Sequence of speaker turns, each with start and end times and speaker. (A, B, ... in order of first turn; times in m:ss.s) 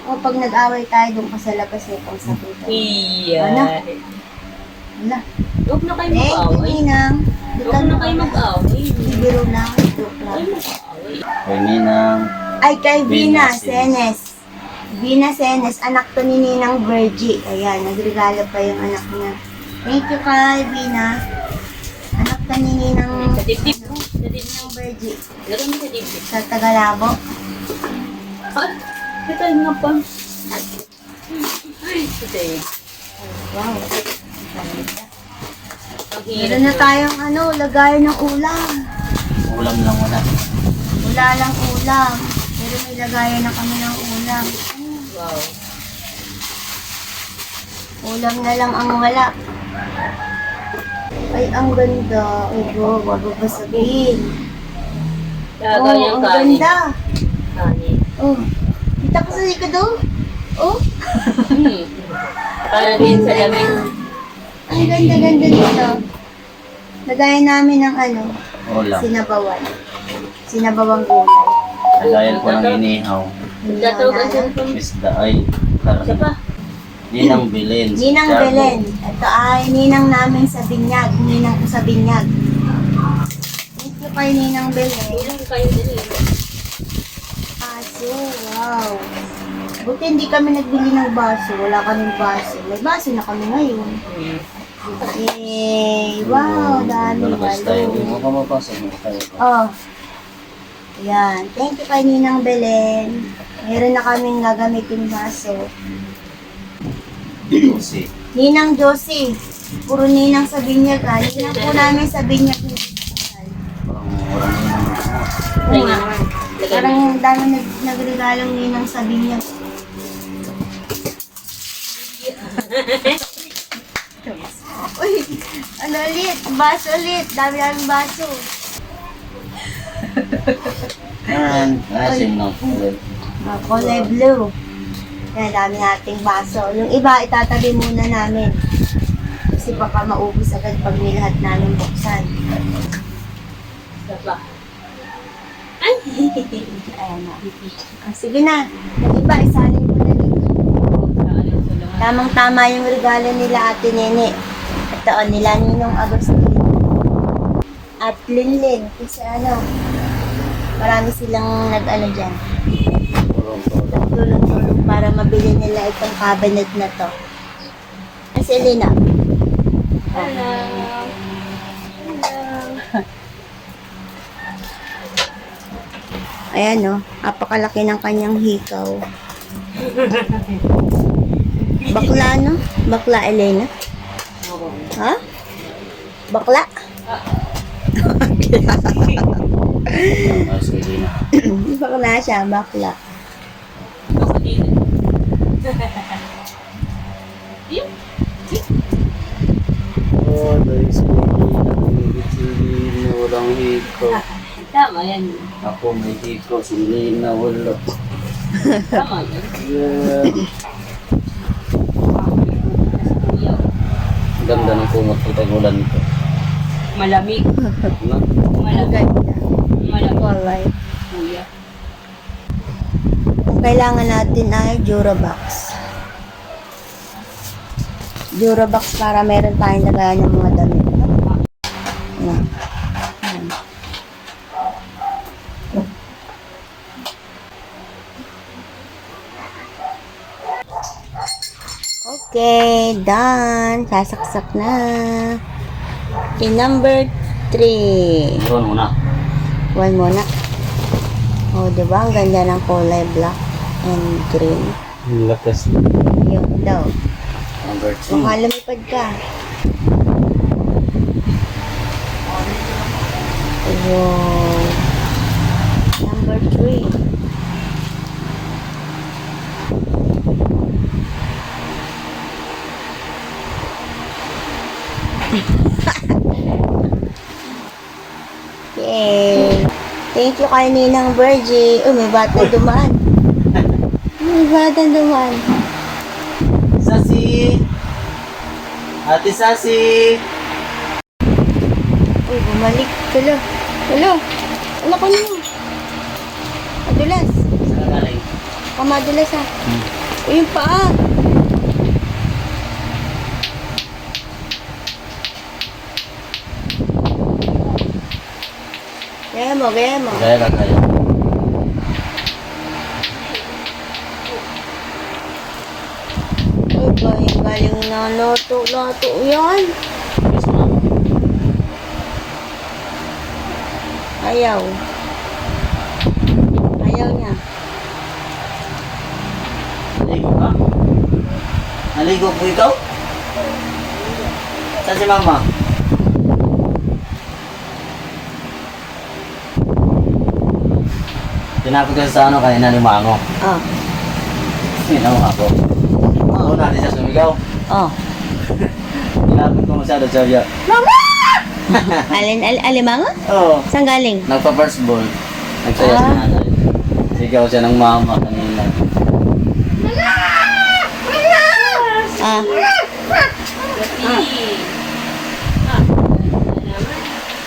0:00.1-0:02.9 A
0:02.7-0:04.0 B
0:03.4-0:03.7 A
0:05.7-0:06.8 B
0:06.1-0:08.4 A
0:07.6-0:09.3 B
0:09.0-0:10.4 A
0:10.3-0:11.2 B
0:11.5-0:12.2 C
0:12.6-0:14.2 A
0:13.1-0:14.0 C
0:15.0-0:19.4 A
0:19.9-0:21.1 A
0:22.2-0:25.2 A
0:23.1-0:24.7 B
0:25.5-0:26.3 B
0:26.3-0:27.2 A
0:29.3-0:30.0 B
0:31.3-0:32.7 B
0:33.5-0:33.9 A
0:34.5-0:35.1 A
0:36.1-0:36.9 B
0:36.4-0:38.7 A
0:39.5-0:40.2 C
0:41.0-0:45.0 A
0:45.1-0:45.5 B
0:48.0-0:49.3 A
0:51.4-0:54.3 A
0:55.6-0:56.7 B
0:55.7-0:56.8 A
0:57.6-0:58.0 B
0:59.0-0:59.9 A
1:00.6-1:01.5 A
1:01.5-1:03.8 B
1:02.8-1:03.9 A
1:04.7-1:05.9 A
1:07.1-1:08.3 A
1:08.7-1:09.1 C
1:09.0-1:09.7 A
1:10.5-1:11.5 A
1:12.0-1:12.8 B
1:12.0-1:13.3 C
1:13.6-1:14.5 A
1:13.7-1:14.8 B
1:14.6-1:16.2 C
1:16.0-1:16.3 B
1:17.1-1:18.8 C
1:18.0-1:22.2 A
1:23.8-1:25.3 A
1:25.1-1:26.2 B
1:27.6-1:29.0 A
1:29.8-1:33.9 A
1:34.1-1:34.4 B
1:34.9-1:35.2 B
1:35.1-1:38.2 A
1:36.2-1:39.4 C
1:39.4-1:39.7 A
1:41.0-1:43.1 A
1:43.6-1:45.6 A
1:47.5-1:48.1 C
1:48.4-1:49.3 A
1:49.9-1:53.6 A
1:51.3-1:52.0 B
1:53.9-1:55.3 C
1:55.6-1:57.2 B
1:55.7-1:56.0 A
1:56.7-1:59.4 A
2:02.0-2:03.2 B
2:04.2-2:08.4 A
2:11.3-2:13.0 C
2:12.0-2:12.8 A
2:13.4-2:14.5 A
2:13.7-2:14.1 B
2:15.3-2:18.5 A
2:19.5-2:22.3 A
2:24.0-2:24.4 B
2:25.8-2:26.8 B
2:26.9-2:27.4 A
2:27.4-2:27.8 B
2:28.1-2:30.5 A
2:30.9-2:32.3 B
2:32.0-2:34.3 A
2:35.0-2:36.7 A
2:38.0-2:39.6 A
2:40.8-2:42.4 A
2:43.3-2:44.0 C
2:43.9-2:47.1 A
2:48.4-2:48.9 A
2:50.1-2:50.4 A
2:50.1-2:51.1 B
2:52.0-2:52.8 B
2:56.6-2:58.9 A
2:59.8-3:00.6 B
3:01.6-3:02.3 B
3:01.9-3:03.7 A
3:04.4-3:04.9 B
3:06.3-3:06.7 A
3:08.0-3:09.2 A
3:08.7-3:09.3 B
3:09.9-3:10.4 A
3:10.2-3:11.1 C
3:11.5-3:13.0 A
3:14.1-3:14.8 B
3:15.6-3:16.2 B
3:20.1-3:24.2 C
3:24.0-3:25.5 B
3:25.6-3:27.8 C
3:28.6-3:29.0 A
3:28.9-3:29.5 B
3:29.6-3:30.4 C
3:32.1-3:33.6 B
3:34.4-3:36.0 C
3:34.5-3:34.9 B
3:36.9-3:37.5 B
3:37.6-3:37.9 A
3:38.5-3:39.0 B
3:38.7-3:39.4 A
3:39.8-3:40.4 B
3:40.2-3:40.7 A
3:41.1-3:41.5 B
3:43.5-3:45.7 A
3:48.4-3:50.9 A
3:53.2-3:53.5 A
4:02.1-4:05.2 A
4:06.4-4:08.2 A
4:08.4-4:08.9 C
4:09.8-4:10.2 A
4:11.6-4:14.8 A
4:15.0-4:15.9 C
4:16.0-4:16.9 A
4:17.6-4:18.3 C
4:18.1-4:19.1 A
4:22.4-4:22.9 B
4:23.7-4:24.8 A
4:26.0-4:27.0 A
4:38.8-4:39.6 A
4:40.1-4:43.0 A
4:44.2-4:45.4 A
4:46.8-4:47.5 C
4:49.1-4:50.2 C
4:52.3-4:53.4 A
4:53.9-4:54.2 A
4:54.8-4:55.4 A
4:56.9-4:57.4 A
4:57.6-4:58.2 C
4:58.8-4:59.5 A
5:00.3-5:00.8 A
5:09.3-5:10.2 A
5:10.1-5:10.8 C
5:13.1-5:13.5 B
5:16.7-5:19.7 A
5:20.3-5:20.8 C
5:24.2-5:24.7 A
5:26.8-5:27.4 A
5:29.9-5:30.6 C
5:32.0-5:32.8 C
5:34.8-5:35.5 C
5:41.6-5:43.2 C
5:44.9-5:45.6 C
5:46.3-5:47.4 C
5:49.2-5:50.5 C
5:50.7-5:51.2 A
5:51.7-5:52.0 C
5:51.7-5:53.1 A
5:53.3-5:53.6 C
5:53.7-5:54.3 A
5:54.3-5:55.1 C
5:55.6-5:56.6 C
5:55.8-5:56.2 A
5:57.1-5:58.8 C
6:01.5-6:02.1 B
6:02.2-6:02.6 A
6:03.7-6:04.7 B
6:05.6-6:07.2 B